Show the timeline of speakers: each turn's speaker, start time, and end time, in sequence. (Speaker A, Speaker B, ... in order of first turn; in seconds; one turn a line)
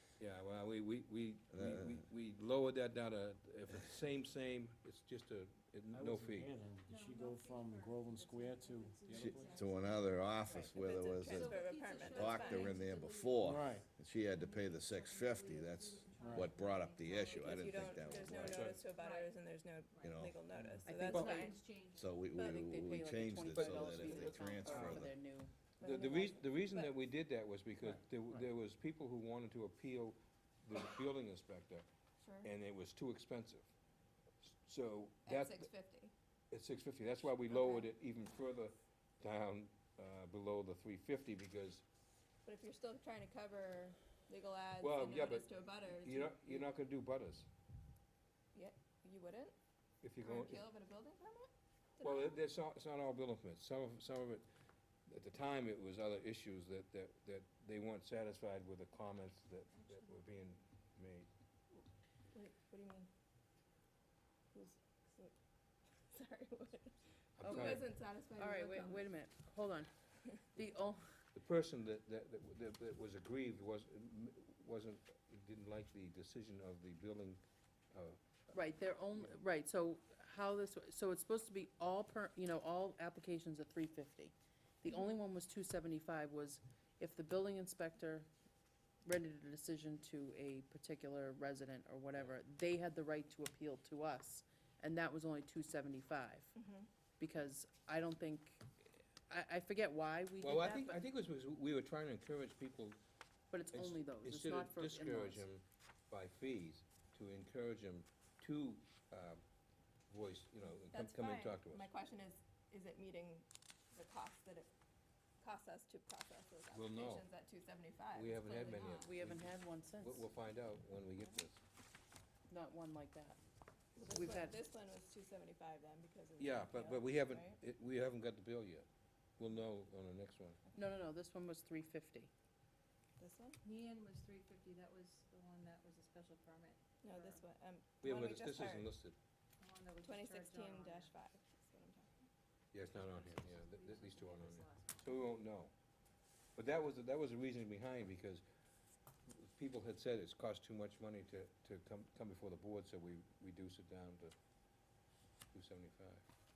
Speaker A: 0.2-6.5
Speaker B: 1.5-2.0
Speaker C: 5.9-9.8
Speaker D: 6.8-10.4
Speaker B: 9.1-18.7
Speaker E: 10.4-12.8
Speaker D: 11.2-19.3
Speaker C: 13.4-13.9
Speaker C: 16.2-16.5
Speaker E: 17.3-21.6
Speaker A: 18.4-18.8
Speaker D: 19.9-20.2
Speaker B: 20.0-20.4
Speaker C: 20.5-20.9
Speaker F: 20.8-21.6
Speaker A: 21.1-21.4
Speaker D: 21.1-22.1
Speaker B: 21.9-25.1
Speaker E: 22.3-22.6
Speaker F: 22.4-25.5
Speaker A: 23.6-25.0
Speaker E: 23.6-24.4
Speaker E: 25.8-26.9
Speaker A: 25.8-31.9
Speaker C: 27.9-28.4
Speaker E: 32.2-32.5
Speaker A: 32.4-33.7
Speaker A: 34.4-35.7
Speaker E: 35.2-36.1
Speaker A: 36.5-41.8
Speaker E: 37.4-37.9
Speaker E: 42.4-46.6
Speaker A: 44.8-47.5
Speaker E: 48.5-49.6
Speaker A: 50.0-50.7
Speaker E: 50.2-52.4
Speaker A: 52.0-54.4
Speaker A: 55.1-61.3
Speaker E: 62.3-63.1
Speaker E: 64.5-65.3
Speaker E: 66.1-69.1
Speaker A: 67.4-67.9
Speaker F: 67.4-71.2
Speaker A: 71.4-77.4
Speaker A: 77.9-78.2
Speaker F: 78.5-88.3
Speaker F: 89.0-96.5
Speaker E: 96.6-96.9
Speaker F: 97.2-101.0
Speaker A: 100.4-103.0
Speaker F: 103.5-105.5
Speaker A: 103.7-109.4
Speaker A: 110.1-111.9
Speaker E: 110.9-114.7
Speaker E: 115.4-119.1
Speaker A: 116.7-117.2
Speaker A: 118.1-121.6
Speaker F: 119.0-120.3
Speaker F: 122.5-123.4
Speaker E: 124.0-127.6
Speaker F: 124.0-124.6
Speaker A: 126.4-128.8
Speaker A: 129.4-130.6
Speaker F: 130.8-132.3
Speaker E: 133.2-133.6
Speaker D: 133.6-137.4
Speaker E: 137.0-138.9
Speaker A: 138.0-139.2
Speaker D: 139.6-141.1
Speaker E: 140.0-142.3
Speaker A: 142.7-145.7
Speaker D: 142.8-145.3
Speaker A: 146.6-148.4
Speaker A: 149.3-154.3
Speaker A: 155.5-156.2